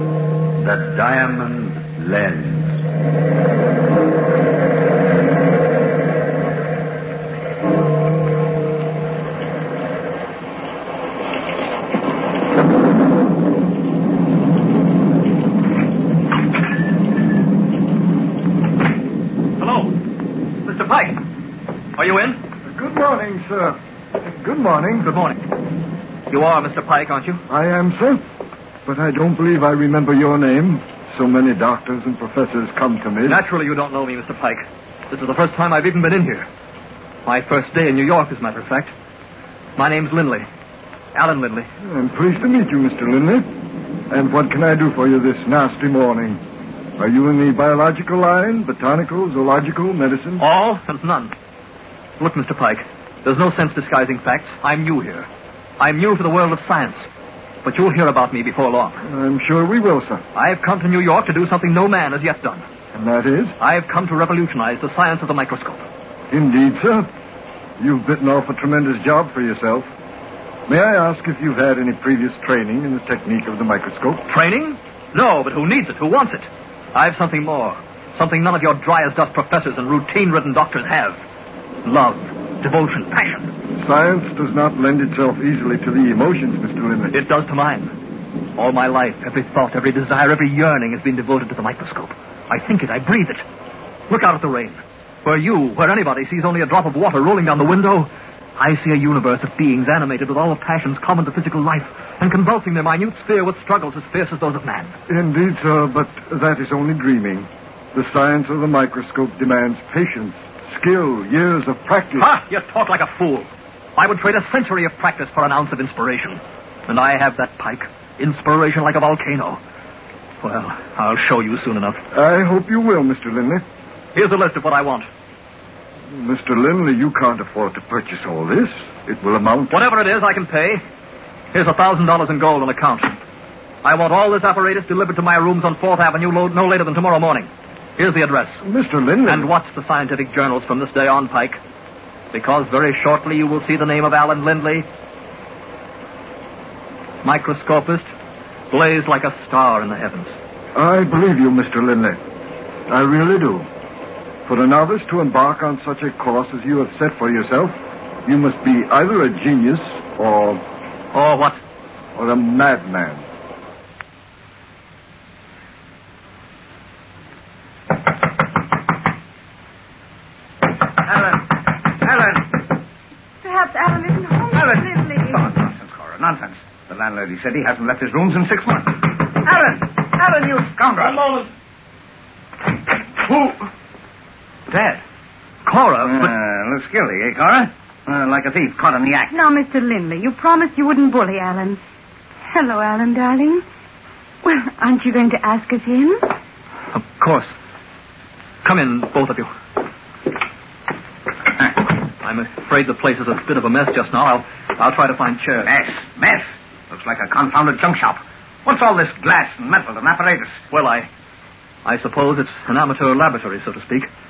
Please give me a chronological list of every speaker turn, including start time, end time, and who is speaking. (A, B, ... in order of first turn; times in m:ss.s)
0:00.6-0:02.8 A
0:19.6-0:20.0 B
0:20.6-0:21.2 B
0:22.0-0:22.4 B
0:22.7-0:25.1 C
0:25.0-0:25.4 B
0:26.3-0:27.4 B
0:27.5-0:28.2 C
0:28.8-0:33.4 C
0:33.3-0:36.5 B
0:37.2-0:38.9 B
0:39.8-0:40.5 B
0:41.1-0:41.7 B
0:41.8-0:43.5 C
0:44.1-0:46.4 C
0:47.0-0:50.4 C
0:50.4-0:51.4 B
0:52.2-0:57.0 B
0:57.6-0:59.0 B
0:59.0-1:00.2 C
1:00.3-1:02.6 B
1:02.9-1:03.5 C
1:03.6-1:05.8 B
1:06.3-1:07.1 C
1:07.8-1:09.9 C
1:10.7-1:14.2 C
1:14.3-1:21.2 B
1:21.8-1:23.5 B
1:23.8-1:27.1 C
1:27.1-1:27.9 B
1:28.6-1:33.4 B
1:34.1-1:45.0 B
1:45.1-1:52.3 C
1:52.2-1:59.6 B
2:00.4-2:02.0 B
2:02.1-2:03.6 C
2:04.1-2:05.1 B
2:06.1-2:09.8 C
2:09.7-2:10.8 B
2:11.5-2:13.2 B
2:13.8-2:18.6 B
2:18.6-2:19.5 C
2:19.3-2:21.6 B
2:22.3-2:24.8 B
2:27.2-2:28.0 B
2:28.7-2:30.3 B
2:30.7-2:32.2 C
2:32.9-2:33.7 C
2:34.4-2:40.6 C
2:41.1-2:41.6 B
2:42.1-2:43.2 C
2:51.0-2:52.6 D
2:53.4-2:55.4 E
2:54.5-3:01.3 D
3:03.2-3:03.7 D
3:04.7-3:05.0 D
3:05.6-3:06.3 B
3:06.0-3:09.3 D
3:09.3-3:11.8 E
3:12.4-3:13.6 E
3:14.4-3:16.2 E
3:16.9-3:17.5 B
3:18.6-3:19.5 B
3:22.2-3:25.7 B
3:25.6-3:30.6 D
3:30.7-3:31.1 B
3:31.8-3:34.1 B